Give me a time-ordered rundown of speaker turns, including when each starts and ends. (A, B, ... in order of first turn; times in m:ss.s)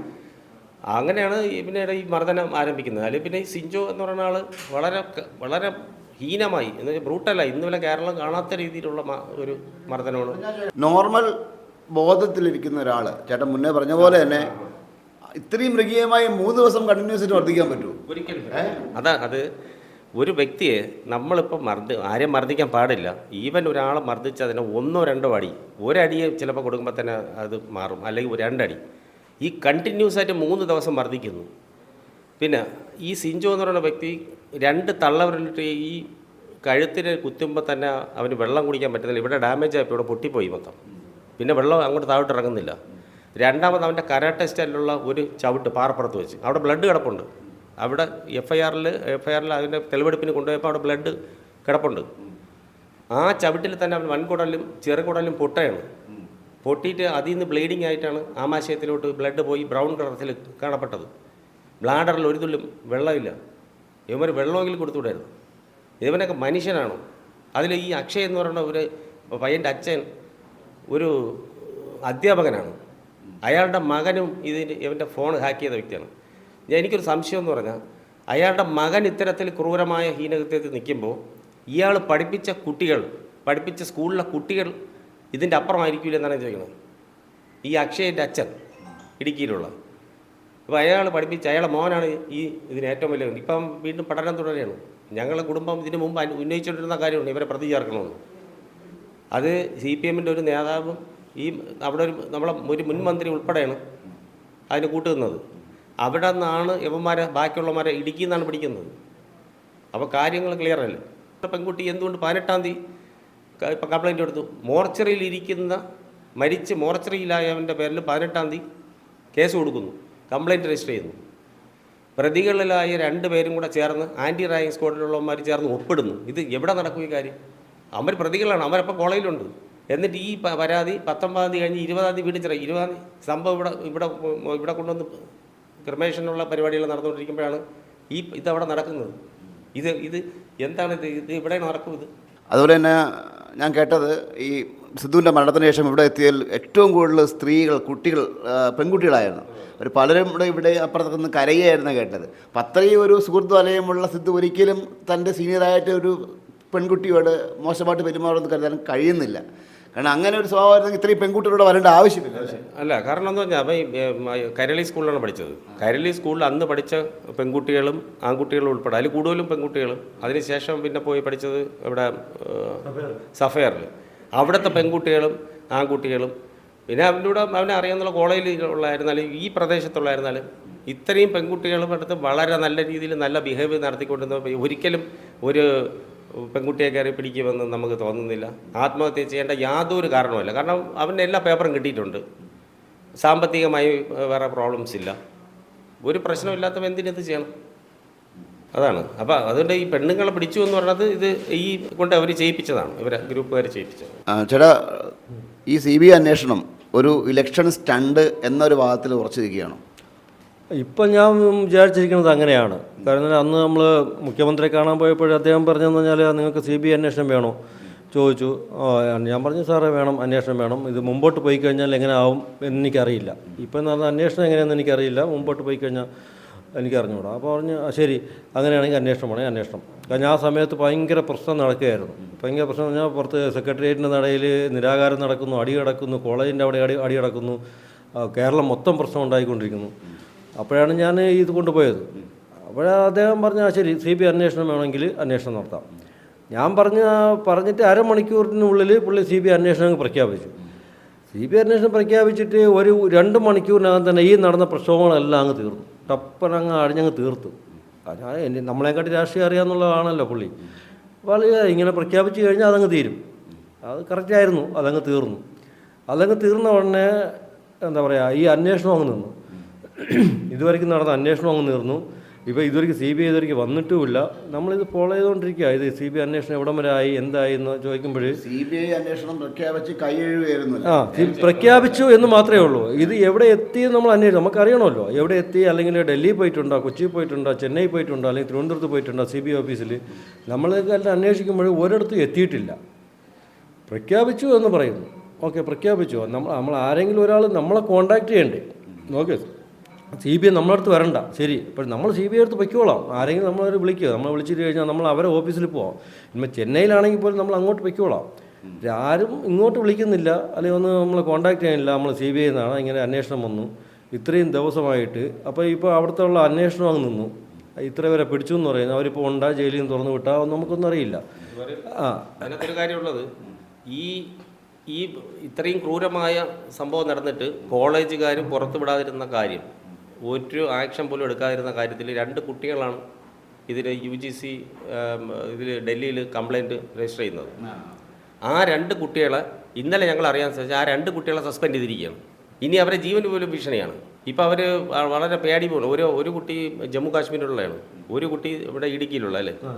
0:00.9-0:10.4 A
0:10.3-0:11.3 B
0:11.9-0:14.5 B
0:14.0-0:14.7 A
0:15.4-0:18.8 B
0:18.1-0:19.4 A
0:20.2-0:28.8 A
0:29.4-0:31.5 A
0:32.4-0:36.1 A
0:36.6-0:40.8 A
0:41.4-0:42.8 A
0:43.4-0:52.1 A
0:53.1-0:55.9 A
0:56.6-1:01.1 A
1:01.8-1:03.4 A
1:04.1-1:05.3 A
1:06.0-1:07.0 A
1:07.6-1:10.0 A
1:10.9-1:12.8 A
1:13.4-1:16.1 A
1:16.7-1:17.8 A
1:18.3-1:21.2 A
1:21.7-1:24.7 A
1:25.3-1:26.7 A
1:27.6-1:28.5 A
1:29.2-1:29.7 A
1:30.7-1:38.2 A
1:39.3-1:43.8 A
1:44.7-1:45.4 A
1:46.0-1:48.9 A
1:49.9-1:52.8 A
1:53.6-1:55.8 A
1:56.4-1:58.6 A
1:59.4-2:01.2 A
2:02.2-2:07.4 A
2:08.0-2:15.2 A
2:15.8-2:19.2 A
2:19.8-2:22.1 A
2:22.5-2:36.2 B
2:36.7-2:39.4 B
2:39.9-2:42.6 B
2:42.4-2:56.3 A
2:52.8-2:53.2 C
2:56.9-3:12.2 A
3:13.2-3:15.2 A
3:16.0-3:17.5 A
3:18.7-3:24.2 A
3:24.3-3:25.1 B
3:25.7-3:29.8 B
3:30.8-3:37.6 C
3:38.1-3:46.1 C
3:46.8-3:57.6 C
3:58.2-3:59.9 C
4:00.6-4:02.1 C
4:02.7-4:05.8 C
4:06.5-4:10.6 C
4:11.3-4:20.6 C
4:21.3-4:23.2 C
4:23.8-4:25.4 C
4:26.1-4:29.4 C
4:30.0-4:38.4 C
4:38.3-4:41.2 B
4:40.8-4:52.8 C
4:41.1-4:42.4 A
4:53.9-4:59.5 C
5:00.1-5:08.3 C
5:08.8-5:21.2 C
5:21.5-5:21.9 A
5:21.9-5:22.4 C
5:22.4-5:23.3 A
5:23.9-5:24.3 A
5:24.9-5:29.7 A
5:30.2-5:33.0 A
5:33.7-5:37.6 A
5:38.5-5:49.6 A